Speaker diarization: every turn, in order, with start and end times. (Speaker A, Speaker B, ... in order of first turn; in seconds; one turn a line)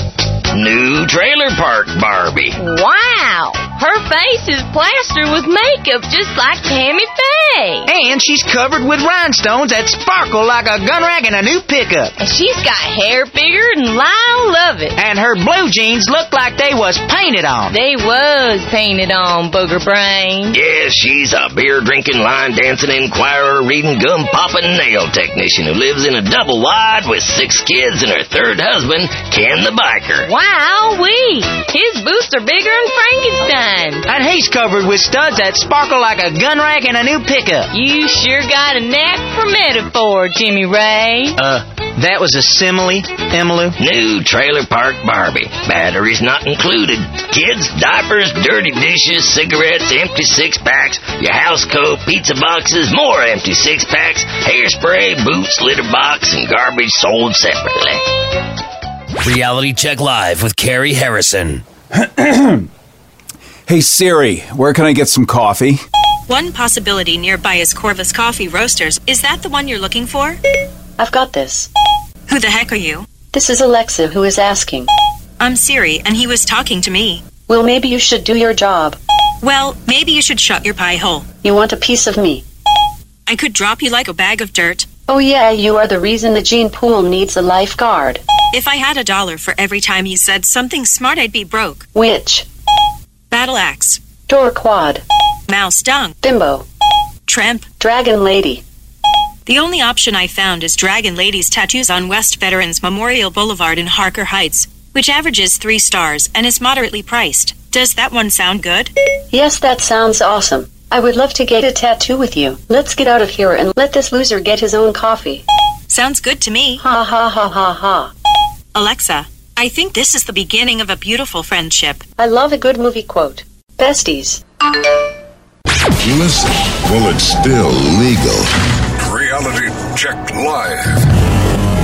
Speaker A: 0.5-2.6
Speaker B: 2.6-7.9
Speaker C: 7.9-12.1
Speaker B: 12.2-15.0
Speaker C: 15.0-17.7
Speaker B: 17.7-20.5
Speaker A: 20.5-30.3
Speaker B: 30.2-34.1
Speaker C: 34.1-37.7
Speaker B: 37.7-41.4
Speaker C: 41.4-43.8
Speaker A: 43.8-58.0
Speaker D: 59.2-61.6
Speaker E: 62.2-62.6
Speaker E: 63.7-65.8
Speaker F: 66.3-70.4
Speaker G: 71.0-71.7
Speaker F: 72.3-73.1
Speaker G: 73.3-74.9
Speaker F: 75.4-77.3
Speaker G: 77.5-79.0
Speaker F: 79.4-81.3
Speaker G: 81.4-82.4
Speaker F: 83.3-84.9
Speaker G: 85.1-88.2
Speaker F: 88.5-91.9
Speaker G: 91.9-92.5
Speaker F: 93.3-94.0
Speaker G: 94.3-95.0
Speaker F: 95.5-96.2
Speaker G: 96.2-96.7
Speaker F: 97.3-97.7
Speaker G: 97.8-98.6
Speaker F: 99.5-108.9
Speaker G: 109.3-115.4
Speaker F: 115.9-116.8
Speaker G: 116.8-118.1
Speaker F: 118.7-122.0
Speaker G: 122.2-124.4
Speaker H: 126.0-128.5
Speaker H: 129.0-131.1